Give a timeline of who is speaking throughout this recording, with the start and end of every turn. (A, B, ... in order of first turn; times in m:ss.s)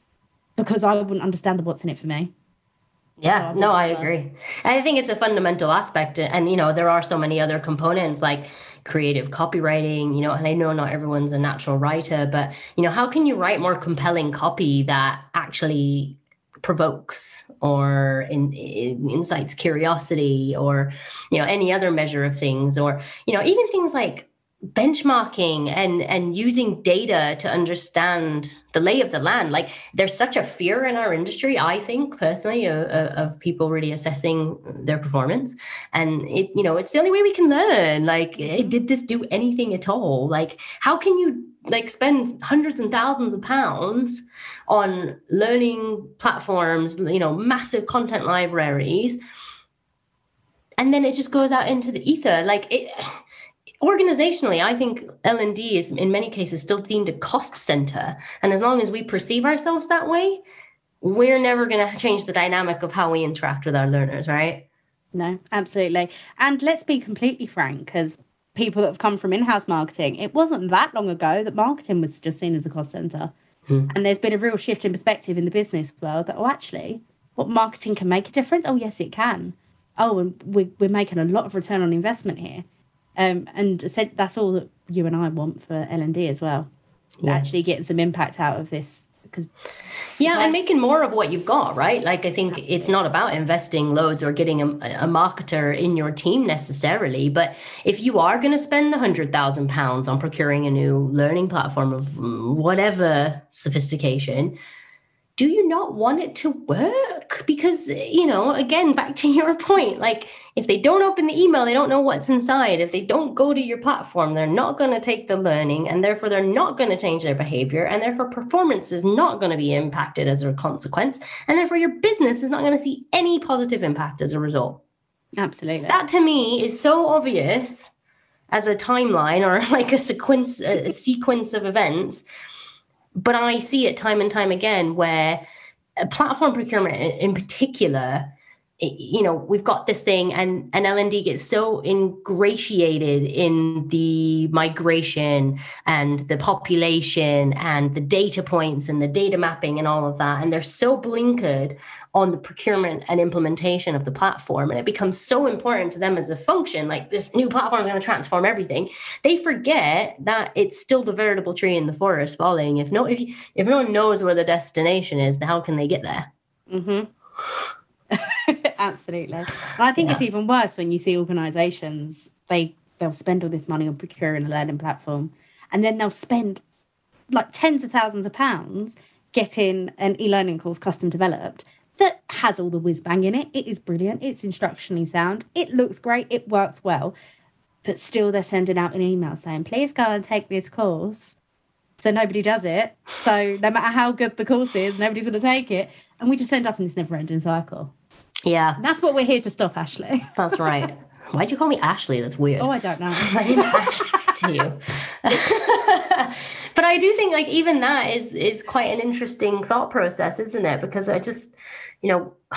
0:00.6-0:02.3 A
0:03.2-0:49.2 B
0:03.3-0:04.1 A
0:38.4-0:38.7 A
0:50.8-0:53.2 B
0:53.8-1:00.4 B
1:01.0-1:04.6 B
1:05.1-1:13.3 A
1:13.9-1:22.6 A
1:23.2-1:26.7 A
1:27.2-1:29.5 A
1:30.2-1:44.6 B
1:30.2-1:30.6 A
1:32.6-1:32.9 A
1:45.4-2:04.8 B
2:05.4-2:06.0 A
2:05.9-2:07.9 B
2:08.5-2:12.2 B
2:13.2-2:15.4 B
2:16.0-2:46.3 B
2:46.7-2:47.1 A
2:48.1-2:56.6 A
2:50.0-2:50.2 B
2:57.3-3:07.1 A
3:07.8-3:11.4 A
3:12.0-3:17.9 A
3:18.5-3:18.8 B
3:18.8-3:20.3 A
3:20.4-3:32.4 B
3:22.6-3:24.3 A